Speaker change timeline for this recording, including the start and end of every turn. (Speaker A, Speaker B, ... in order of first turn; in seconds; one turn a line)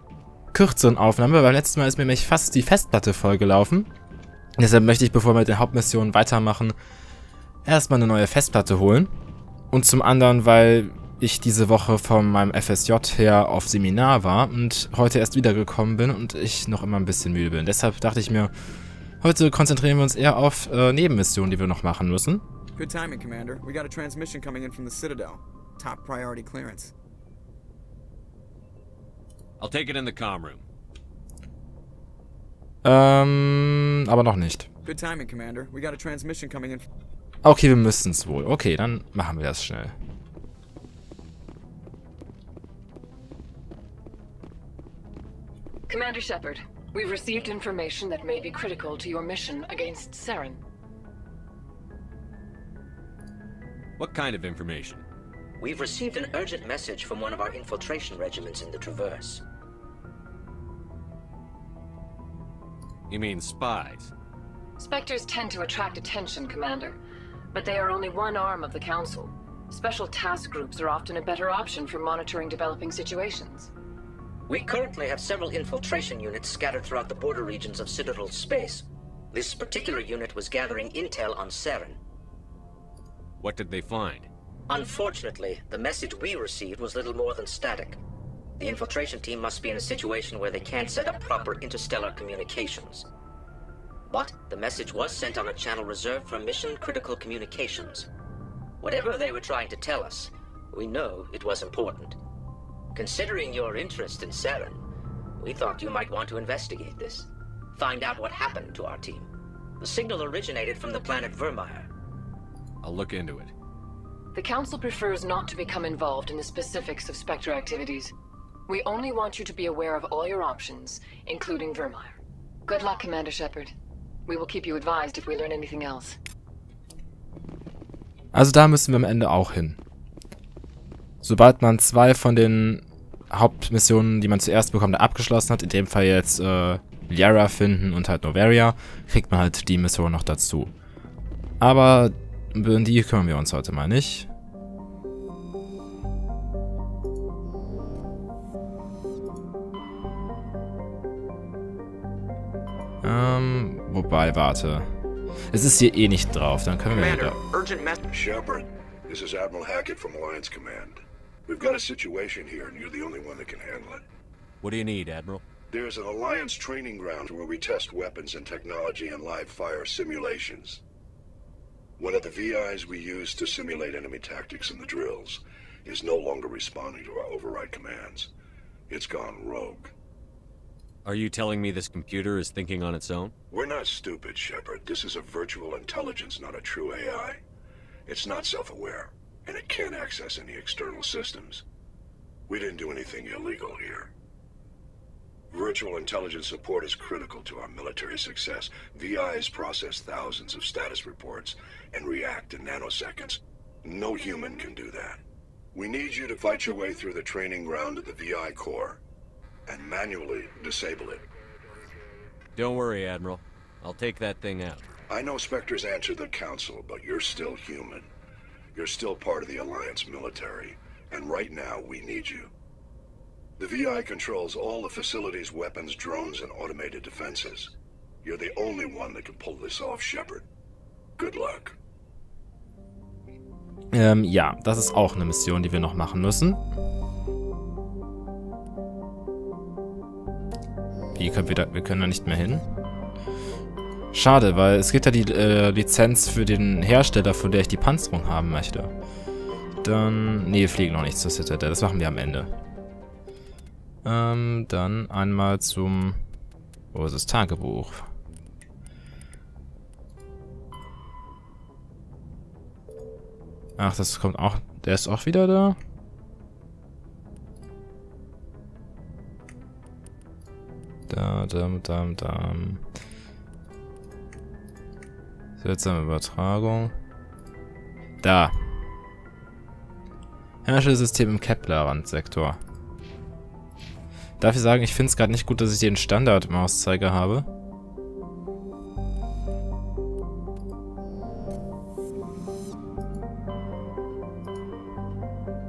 Speaker A: 0.5-3.9
Speaker A: 4.6-6.8
Speaker A: 7.7-9.1
Speaker A: 9.7-18.5
Speaker A: 19.2-22.4
Speaker B: 22.8-26.9
Speaker C: 29.6-30.7
Speaker A: 32.9-34.7
Speaker B: 34.9-36.9
Speaker A: 37.4-40.0
Speaker D: 45.9-50.6
Speaker C: 54.0-55.1
Speaker E: 55.6-59.4
Speaker C: 63.1-64.1
Speaker D: 64.8-67.0
Speaker D: 67.5-73.7
Speaker E: 74.5-82.0
Speaker C: 83.4-84.3
Speaker E: 84.7-88.0
Speaker E: 88.6-93.1
Speaker E: 94.1-98.1
Speaker E: 98.8-102.2
Speaker E: 102.9-104.8
Speaker E: 105.4-109.3
Speaker E: 109.8-111.9
Speaker C: 112.8-113.5
Speaker D: 114.3-118.1
Speaker D: 118.7-122.2
Speaker D: 122.7-123.7
Speaker D: 124.3-126.2
Speaker A: 128.3-129.8
Speaker A: 131.2-140.7
Speaker A: 141.6-144.3
Speaker A: 153.0-154.9
Speaker A: 155.5-157.4
Speaker B: 156.9-158.0
Speaker F: 158.1-164.1
Speaker C: 164.6-165.4
Speaker F: 165.7-170.8
Speaker F: 172.0-178.3
Speaker F: 178.9-179.9
Speaker C: 181.1-183.3
Speaker F: 183.5-187.4
Speaker F: 188.1-191.6
Speaker F: 192.5-194.1
Speaker F: 195.5-205.2
Speaker F: 205.7-209.0
Speaker F: 209.7-211.3
Speaker C: 212.6-214.9
Speaker F: 215.1-218.1
Speaker F: 218.8-222.5
Speaker F: 223.6-230.5
Speaker F: 231.2-231.8
Speaker A: 233.9-236.6
Speaker A: 241.2-242.7
Speaker A: 244.1-248.9
Speaker A: 249.8-252.5
Speaker A: 254.1-256.2
Speaker A: 256.9-258.1
Speaker A: 263.8-265.8
Speaker A: 271.1-272.8
Speaker A: 275.6-276.9
Speaker A: 278.2-278.6
Speaker A: 280.6-282.6
Speaker A: 284.4-287.5